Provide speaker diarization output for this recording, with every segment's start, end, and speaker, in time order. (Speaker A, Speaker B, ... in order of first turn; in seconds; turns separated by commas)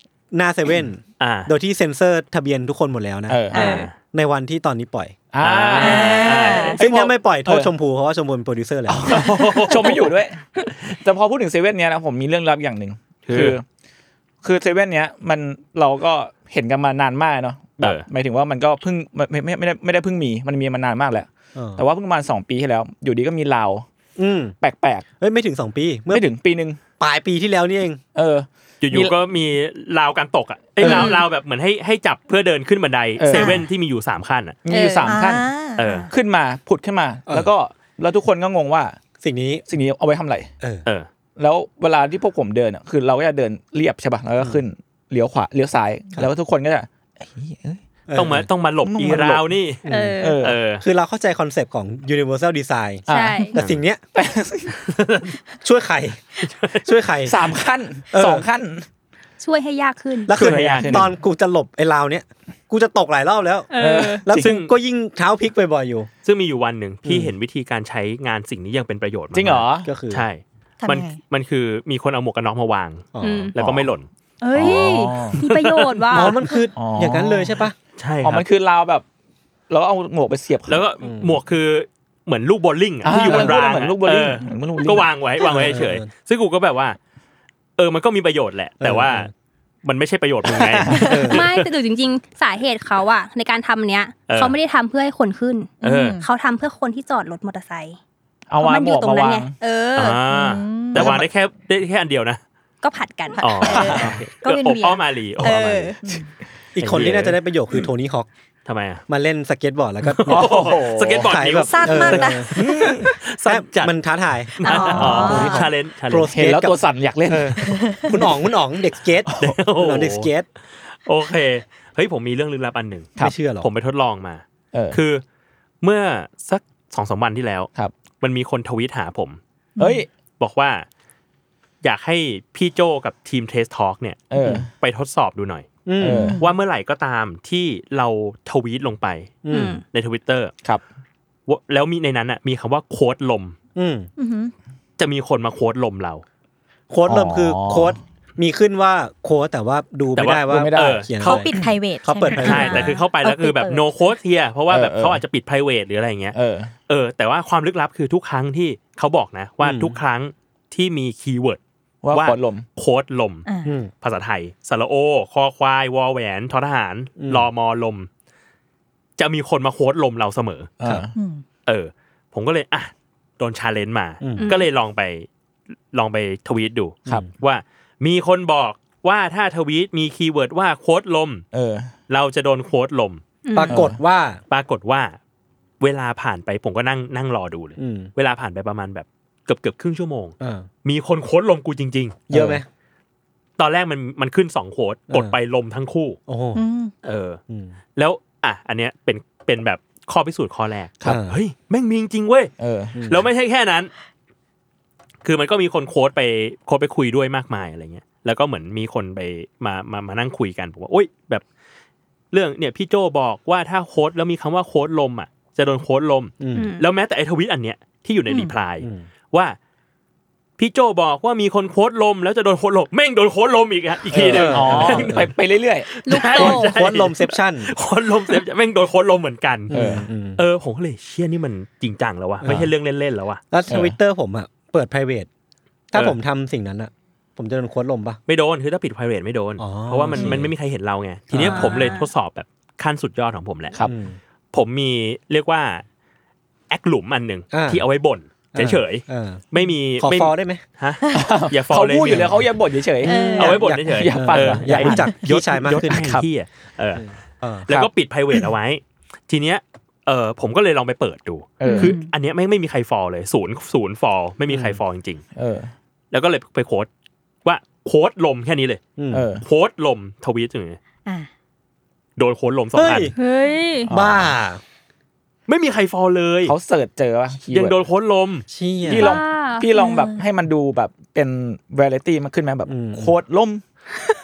Speaker A: 0.3-5.2, Speaker B: 1.2-1.5, Speaker C: 3.3-3.9, Speaker D: 3.5-3.8, Speaker B: 3.5-4.0, Speaker C: 5.3-7.7, Speaker B: 5.4-6.8, Speaker D: 5.8-6.8, Speaker A: 6.8-9.2, Speaker C: 8.9-13.6, Speaker B: 9.1-10.1, Speaker B: 13.2-13.6, Speaker C: 14.4-23.9, Speaker B: 17.8-18.1, Speaker A: 21.6-21.8, Speaker A: 24.2-24.5, Speaker C: 24.6-25.0, Speaker A: 25.2-26.2, Speaker C: 26.1-26.8, Speaker A: 27.0-28.0, Speaker C: 28.1-29.1, Speaker B: 28.8-34.6, Speaker E: 30.8-31.2, Speaker C: 33.2-33.6, Speaker D: 33.3-33.6, Speaker C: 34.6-35.5, Speaker E: 34.7-35.1, Speaker D: 35.0-36.1, Speaker B: 35.8-36.1, Speaker C: 36.1-39.0, Speaker A: 39.2-39.6, Speaker C: 39.7-40.5, Speaker C: 41.4-47.8, Speaker A: 48.1-48.5, Speaker B: 48.1-49.8, Speaker C: 48.8-49.5, Speaker A: 49.9-50.2, Speaker E: 49.9-50.4, Speaker C: 50.2-50.6, Speaker B: 50.4-50.8, Speaker A: 50.8-53.0, Speaker C: 53.1-53.5, Speaker E: 53.1-53.5, Speaker A: 53.5-54.0, Speaker C: 54.1-54.7, Speaker B: 54.8-55.3, Speaker A: 55.6-56.2, Speaker B: 56.4-56.9, Speaker A: 56.8-57.5, Speaker C: 57.2-58.9, Speaker A: 58.1-58.4, Speaker E: 59.4-60.3, Speaker A: 60.3-63.7, Speaker C: 60.3-61.1, Speaker E: 63.7-64.2, Speaker C: 63.7-64.2, Speaker A: 64.2-66.1, Speaker B: 64.3-64.7, Speaker B: 66.2-74.1, Speaker A: 67.0-67.3, Speaker C: 69.3-69.9, Speaker A: 69.8-70.2, Speaker D: 70.8-71.2, Speaker A: 73.1-73.5, Speaker E: 73.2-73.5, Speaker C: 73.6-73.9, Speaker E: 74.4-76.5, Speaker C: 74.5-75.4, Speaker B: 74.6-76.0, Speaker A: 76.1-77.7, Speaker C: 76.7-77.6, Speaker B: 78.0-78.5, Speaker C: 78.2-79.0, Speaker C: 79.7-80.8, Speaker B: 80.7-87.0, Speaker A: 81.0-81.4, Speaker C: 83.0-85.1, Speaker A: 85.4-86.1, Speaker B: 87.8-89.3, Speaker A: 88.8-89.3, Speaker B: 89.8-91.7, Speaker A: 90.5-91.4, Speaker E: 91.3-98.0, Speaker B: 94.3-94.5, Speaker B: 95.8-96.2, Speaker D: 95.8-96.2, Speaker C: 98.5-99.5, Speaker E: 98.6-100.2, Speaker B: 100.0-102.4, Speaker D: 100.3-101.2, Speaker C: 101.0-101.3, Speaker E: 102.8-104.0, Speaker D: 103.4-105.0, Speaker B: 103.4-106.0, Speaker C: 103.8-104.1, Speaker E: 105.4-106.0, Speaker A: 106.8-108.3, Speaker B: 106.8-107.3, Speaker B: 108.7-109.0, Speaker A: 109.1-110.6, Speaker C: 110.2-111.4, Speaker B: 110.2-113.9, Speaker A: 111.2-112.5, Speaker D: 111.7-112.5, Speaker C: 112.5-113.1, Speaker A: 113.5-120.5, Speaker B: 114.6-116.3, Speaker D: 114.6-115.7, Speaker E: 114.7-115.4, Speaker C: 115.0-115.4, Speaker C: 116.3-117.8, Speaker D: 117.6-118.1, Speaker B: 119.4-120.3, Speaker B: 121.0-125.2, Speaker A: 123.2-123.7, Speaker C: 124.7-125.0, Speaker B: 125.8-127.7, Speaker B: 128.2-129.4, Speaker D: 129.8-130.0, Speaker C: 129.8-130.1, Speaker B: 130.4-130.8, Speaker B: 131.8-135.7, Speaker C: 134.3-134.7, Speaker A: 135.8-136.3, Speaker C: 136.0-136.4, Speaker D: 136.1-136.5, Speaker B: 136.4-139.4, Speaker A: 139.4-139.8, Speaker E: 139.5-139.8, Speaker B: 139.9-140.5, Speaker B: 141.5-143.5, Speaker A: 143.8-144.1, Speaker D: 144.2-144.5, Speaker B: 145.0-146.2, Speaker A: 146.9-152.9, Speaker C: 147.1-148.0, Speaker B: 150.2-151.5, Speaker C: 150.5-151.1, Speaker D: 151.2-153.8, Speaker B: 152.3-156.3, Speaker C: 154.7-155.2, Speaker C: 156.3-156.7, Speaker B: 156.9-161.6, Speaker A: 159.6-160.0, Speaker C: 162.0-162.7, Speaker B: 162.1-163.4, Speaker D: 163.4-163.7, Speaker A: 163.6-163.9, Speaker B: 164.0-168.1, Speaker A: 167.2-167.5, Speaker B: 169.2-170.7, Speaker C: 170.8-171.1, Speaker D: 171.2-171.4, Speaker B: 171.7-175.3, Speaker A: 174.2-174.5, Speaker E: 174.4-174.7, Speaker B: 175.9-181.4, Speaker C: 181.5-181.9, Speaker B: 182.1-183.2, Speaker E: 183.4-183.8, Speaker A: 183.5-184.4, Speaker C: 183.7-184.0, Speaker B: 184.5-185.2, Speaker B: 185.8-192.3, Speaker A: 187.8-188.1, Speaker A: 190.4-190.7, Speaker A: 192.3-192.6, Speaker C: 192.3-192.6, Speaker B: 193.6-196.2, Speaker A: 196.3-196.6, Speaker D: 196.5-196.9, Speaker B: 197.0-197.4, Speaker A: 197.5-197.7, Speaker B: 198.0-202.5, Speaker A: 201.0-201.4, Speaker C: 202.6-203.0, Speaker A: 202.9-203.2, Speaker B: 203.1-203.9, Speaker B: 205.2-211.4, Speaker B: 212.3-219.6, Speaker A: 216.4-216.7, Speaker E: 216.5-216.8, Speaker A: 218.8-219.1, Speaker B: 220.6-225.2, Speaker C: 224.1-225.9, Speaker A: 224.3-225.3, Speaker B: 225.9-229.8, Speaker E: 226.0-226.7, Speaker A: 226.3-227.7, Speaker A: 229.7-230.4, Speaker C: 229.7-230.1, Speaker B: 230.3-233.4, Speaker A: 232.4-232.7, Speaker A: 233.5-235.3, Speaker C: 233.7-233.9, Speaker A: 235.9-238.2, Speaker B: 238.3-243.8, Speaker A: 239.6-240.5, Speaker A: 241.3-241.7, Speaker E: 241.5-242.1, Speaker A: 243.8-244.2, Speaker B: 244.5-245.8, Speaker B: 246.7-252.3, Speaker A: 247.5-247.8, Speaker A: 248.5-249.4, Speaker A: 250.0-250.6, Speaker C: 251.1-256.2, Speaker D: 253.0-253.6, Speaker B: 253.4-257.1, Speaker A: 253.4-256.1, Speaker A: 256.9-257.9, Speaker B: 257.7-265.2, Speaker C: 261.6-261.9, Speaker D: 261.6-262.1, Speaker A: 264.5-264.8, Speaker C: 265.4-265.7, Speaker B: 266.1-266.9, Speaker B: 267.4-268.8, Speaker A: 269.0-269.3, Speaker C: 269.1-269.4, Speaker B: 269.4-270.8, Speaker B: 272.2-273.1, Speaker A: 272.7-273.1, Speaker E: 273.2-273.9, Speaker C: 273.9-274.3, Speaker A: 273.9-274.6, Speaker B: 275.5-276.5, Speaker C: 276.4-277.8, Speaker B: 277.5-278.4, Speaker A: 278.5-279.1, Speaker C: 278.9-283.6, Speaker E: 279.0-279.6, Speaker D: 279.7-280.2, Speaker A: 282.7-283.1